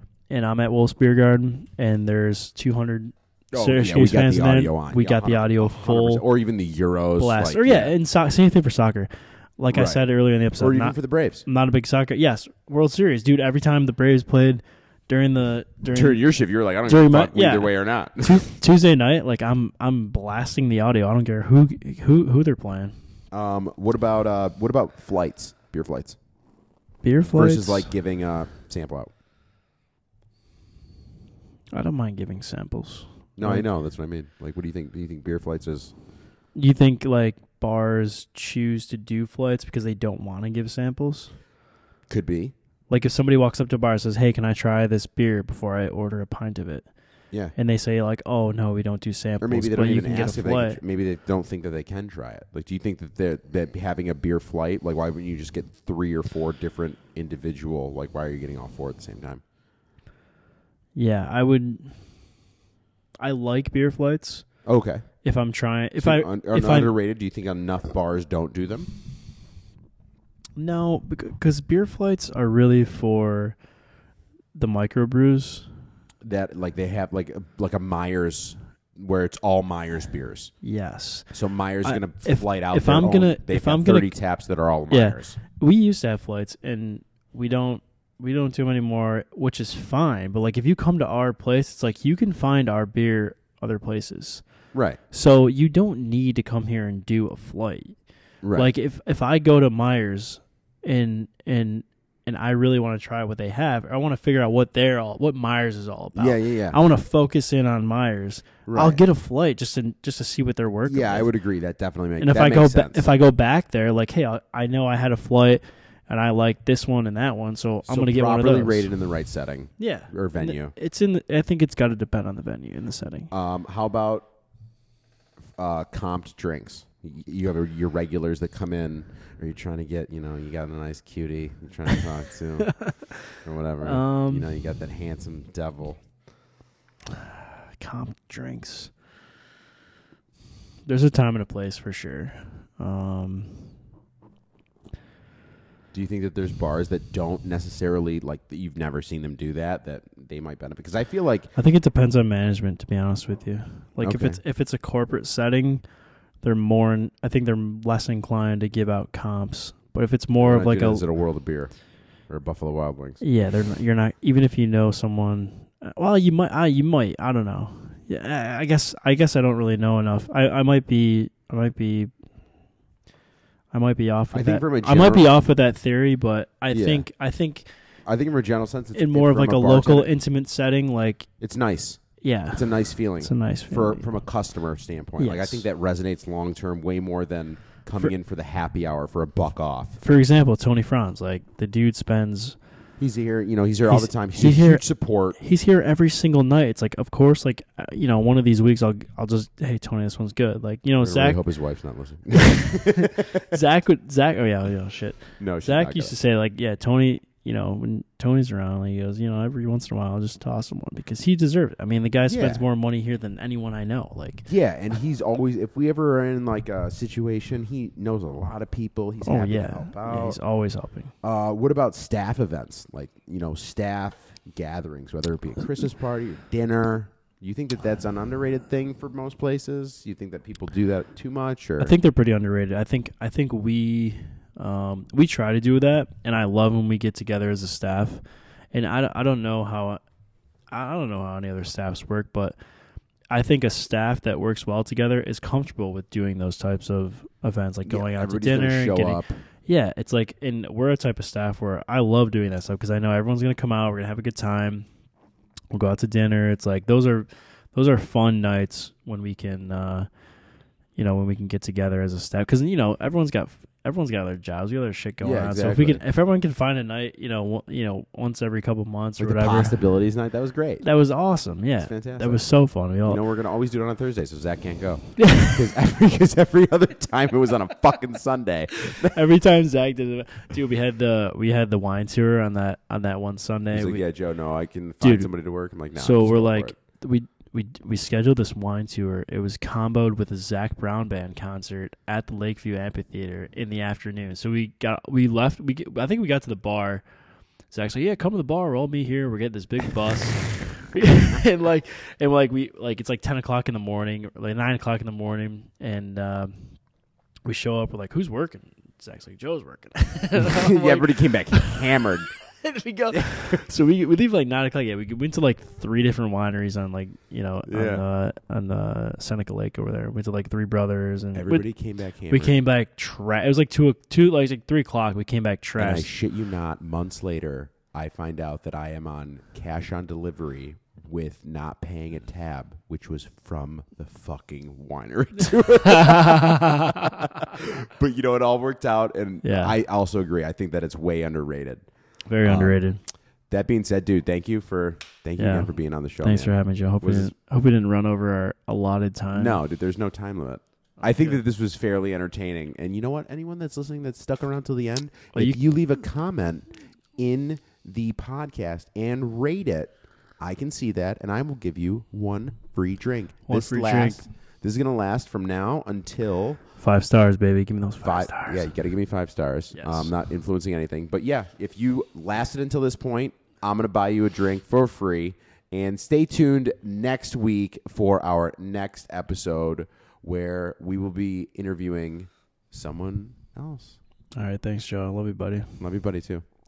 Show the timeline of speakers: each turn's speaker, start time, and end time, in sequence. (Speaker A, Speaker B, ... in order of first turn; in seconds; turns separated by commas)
Speaker A: 0.3-6.2, Speaker B: 3.5-7.9, Speaker A: 7.2-16.3, Speaker B: 9.7-10.0, Speaker B: 10.6-11.4, Speaker B: 15.9-18.4, Speaker A: 16.8-22.9, Speaker B: 23.3-26.2, Speaker A: 27.0-27.9, Speaker B: 27.3-29.1, Speaker A: 31.7-33.7, Speaker B: 33.4-35.9, Speaker A: 36.5-41.3, Speaker B: 42.1-42.5, Speaker A: 42.9-46.9, Speaker A: 47.5-50.8, Speaker B: 49.4-59.4, Speaker A: 60.9-62.0, Speaker A: 63.2-64.5, Speaker B: 64.6-65.0, Speaker A: 65.2-66.9, Speaker B: 66.0-68.9, Speaker A: 70.6-73.6, Speaker A: 74.5-75.7, Speaker B: 76.2-80.5, Speaker A: 80.6-81.3, Speaker B: 81.3-85.4, Speaker A: 81.8-84.1, Speaker A: 84.9-94.4, Speaker B: 94.7-95.0, Speaker A: 95.1-98.0, Speaker B: 98.4-98.7, Speaker A: 98.5-111.3, Speaker B: 106.1-106.8, Speaker B: 108.7-109.0, Speaker B: 110.8-113.1, Speaker A: 112.2-118.9, Speaker B: 117.8-120.7, Speaker A: 119.8-123.3, Speaker B: 123.3-124.2, Speaker B: 125.5-136.0, Speaker A: 132.8-133.1, Speaker A: 133.8-134.6, Speaker A: 137.1-138.9, Speaker A: 140.8-143.7, Speaker B: 145.9-151.5, Speaker A: 151.6-155.8, Speaker B: 154.0-154.4, Speaker A: 156.4-161.0, Speaker B: 160.4-161.7, Speaker B: 162.3-163.2, Speaker A: 163.2-172.1, Speaker A: 173.7-177.7, Speaker B: 174.3-175.3, Speaker B: 176.7-177.0, Speaker B: 178.1-180.1, Speaker A: 178.9-181.3, Speaker B: 181.4-190.0, Speaker A: 182.2-184.2, Speaker A: 185.2-185.6, Speaker A: 190.0-192.6, Speaker B: 193.0-195.4, Speaker A: 193.8-201.4, Speaker B: 201.0-203.6, Speaker A: 202.8-214.5, Speaker B: 205.4-206.1, Speaker B: 212.3-212.6, Speaker B: 214.4-220.4, Speaker A: 219.2-221.1, Speaker B: 221.2-231.9, Speaker A: 231.8-238.2, Speaker A: 238.7-240.0, Speaker A: 240.7-242.6, Speaker A: 243.3-254.9, Speaker B: 247.8-249.4, Speaker A: 255.7-260.1, Speaker A: 260.9-269.8, Speaker B: 265.2-266.0, Speaker B: 269.2-270.8, Speaker A: 270.8-273.2, Speaker B: 271.8-272.4, Speaker B: 273.0-279.2, Speaker A: 275.2-275.6, Speaker A: 278.9-284.0, Speaker B: 283.7-286.7, Speaker A: 285.0-285.3, Speaker A: 285.9-297.0, Speaker A: 297.7-306.5, Speaker A: 307.4-311.8, Speaker B: 310.4-312.3, Speaker A: 312.6-321.7, Speaker B: 313.1-313.6, Speaker B: 317.7-318.0, Speaker B: 321.3-322.6, Speaker A: 322.3-326.1, Speaker B: 325.8-341.8, Speaker A: 335.9-336.9, Speaker A: 339.4-339.8, Speaker A: 342.3-343.0, Speaker B: 342.4-342.8, Speaker B: 343.5-347.3, Speaker A: 345.4-349.6, Speaker B: 349.3-366.6, Speaker A: 351.0-351.4, Speaker A: 363.5-364.3, Speaker A: 366.8-368.7, Speaker B: 368.0-384.0, Speaker A: 369.7-370.1, Speaker A: 384.4-385.7, Speaker B: 385.8-386.4